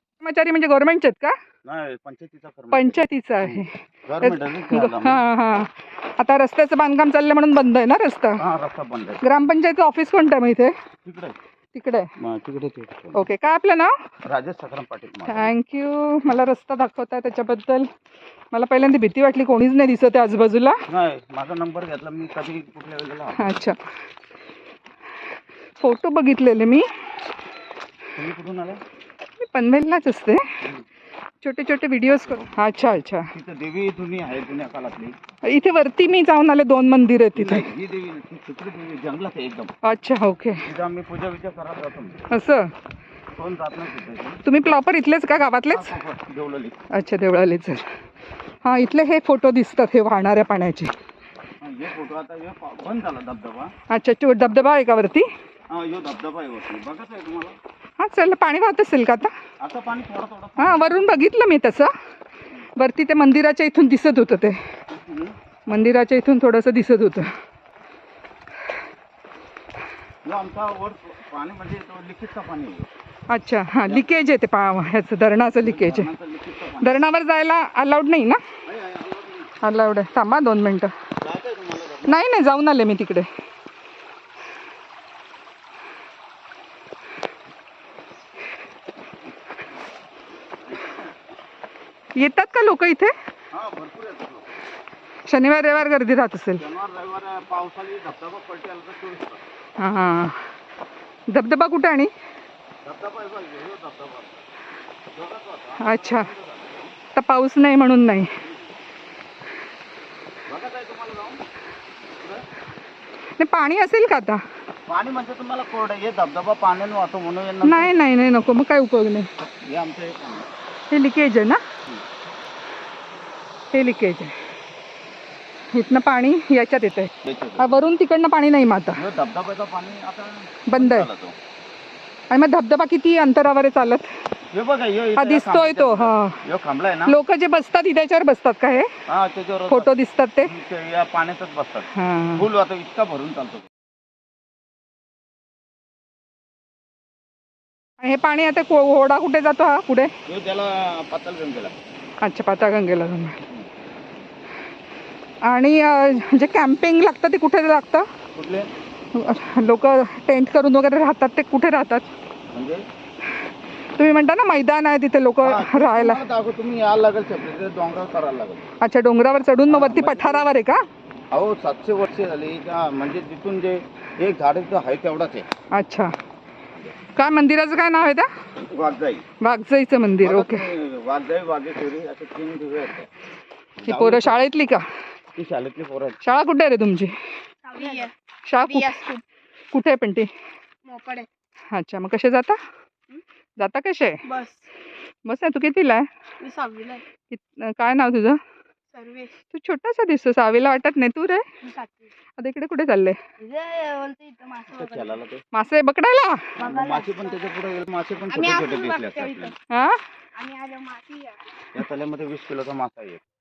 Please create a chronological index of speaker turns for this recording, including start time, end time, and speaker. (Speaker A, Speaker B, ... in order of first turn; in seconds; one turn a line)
Speaker A: 0.2-1.4
Speaker B: 1.6-5.2
Speaker A: 2.7-3.7
Speaker A: 4.2-8.4
Speaker B: 8.4-9.2
Speaker A: 9.2-10.7
Speaker B: 11.0-11.4
Speaker A: 11.8-12.1
Speaker B: 12.2-13.3
Speaker A: 13.2-13.9
Speaker B: 14.3-15.5
Speaker A: 15.3-17.9
Speaker A: 18.5-20.8
Speaker B: 20.9-23.7
Speaker A: 23.4-23.8
Speaker A: 25.8-26.9
Speaker B: 28.1-28.8
Speaker A: 29.4-30.4
Speaker A: 31.4-33.3
Speaker B: 32.1-32.6
Speaker B: 33.3-35.2
Speaker A: 35.4-37.7
Speaker B: 37.3-39.7
Speaker A: 39.8-40.7
Speaker B: 40.6-42.3
Speaker A: 42.3-42.7
Speaker B: 43.3-44.4
Speaker A: 44.5-45.9
Speaker B: 45.7-46.8
Speaker A: 46.9-47.9
Speaker A: 48.6-50.9
Speaker B: 51.6-53.7
Speaker A: 53.9-55.3
Speaker B: 55.7-57.6
Speaker A: 58.0-59.3
Speaker B: 59.6-61.3
Speaker A: 60.6-61.9
Speaker A: 62.8-64.6
Speaker B: 64.9-65.4
Speaker A: 65.7-67.3
Speaker B: 70.2-72.9
Speaker A: 73.3-76.1
Speaker B: 73.8-74.1
Speaker B: 75.6-77.1
Speaker A: 76.8-78.4
Speaker B: 78.7-79.5
Speaker A: 79.6-80.9
Speaker B: 81.2-82.2
Speaker A: 82.1-83.3
Speaker A: 92.2-93.1
Speaker B: 93.5-94.5
Speaker A: 95.3-96.6
Speaker B: 96.6-99.4
Speaker A: 99.8-100.4
Speaker A: 101.3-102.1
Speaker B: 102.8-104.5
Speaker B: 105.1-107.0
Speaker A: 105.8-106.3
Speaker A: 107.2-108.4
Speaker B: 110.5-111.4
Speaker B: 112.2-112.5
Speaker A: 113.4-114.4
Speaker B: 114.9-118.0
Speaker A: 117.6-119.3
Speaker B: 119.6-120.5
Speaker A: 120.9-121.6
Speaker A: 123.7-124.3
Speaker A: 125.7-129.0
Speaker B: 127.2-127.8
Speaker B: 129.0-131.3
Speaker A: 130.7-131.1
Speaker A: 132.3-134.1
Speaker B: 134.5-137.2
Speaker A: 135.2-136.4
Speaker A: 137.1-138.9
Speaker B: 139.1-143.7
Speaker A: 139.7-140.5
Speaker A: 142.0-142.5
Speaker A: 148.0-150.1
Speaker B: 150.3-151.7
Speaker A: 152.2-153.4
Speaker A: 155.4-158.1
Speaker B: 158.3-158.7
Speaker A: 159.1-162.1
Speaker B: 162.5-162.8
Speaker A: 164.0-166.2
Speaker B: 165.4-168.7
Speaker A: 168.8-170.9
Speaker B: 169.7-170.5
Speaker B: 171.3-175.5
Speaker A: 175.7-176.1
Speaker B: 176.7-177.0
Speaker A: 177.2-178.3
Speaker B: 178.6-179.3
Speaker A: 179.4-180.7
Speaker B: 180.2-183.1
Speaker B: 183.8-184.4
Speaker A: 183.9-184.8
Speaker B: 185.3-186.2
Speaker A: 186.2-187.1
Speaker C: 187.6-188.1
Speaker A: 187.8-189.0
Speaker C: 188.6-189.2
Speaker A: 189.7-190.3
Speaker C: 190.8-191.3
Speaker A: 191.7-192.6
Speaker A: 193.6-194.2
Speaker C: 194.2-194.7
Speaker A: 195.2-196.1
Speaker C: 196.4-197.0
Speaker A: 197.3-198.4
Speaker C: 198.9-199.4
Speaker A: 199.5-201.5
Speaker C: 201.6-202.1
Speaker A: 202.4-203.2
Speaker C: 203.4-205.1
Speaker B: 204.7-205.4
Speaker A: 205.5-206.6
Speaker B: 206.6-209.6
Speaker C: 206.6-207.4
Speaker C: 208.3-209.6
Speaker A: 209.7-210.0
Speaker C: 210.3-211.4
Speaker B: 211.7-213.2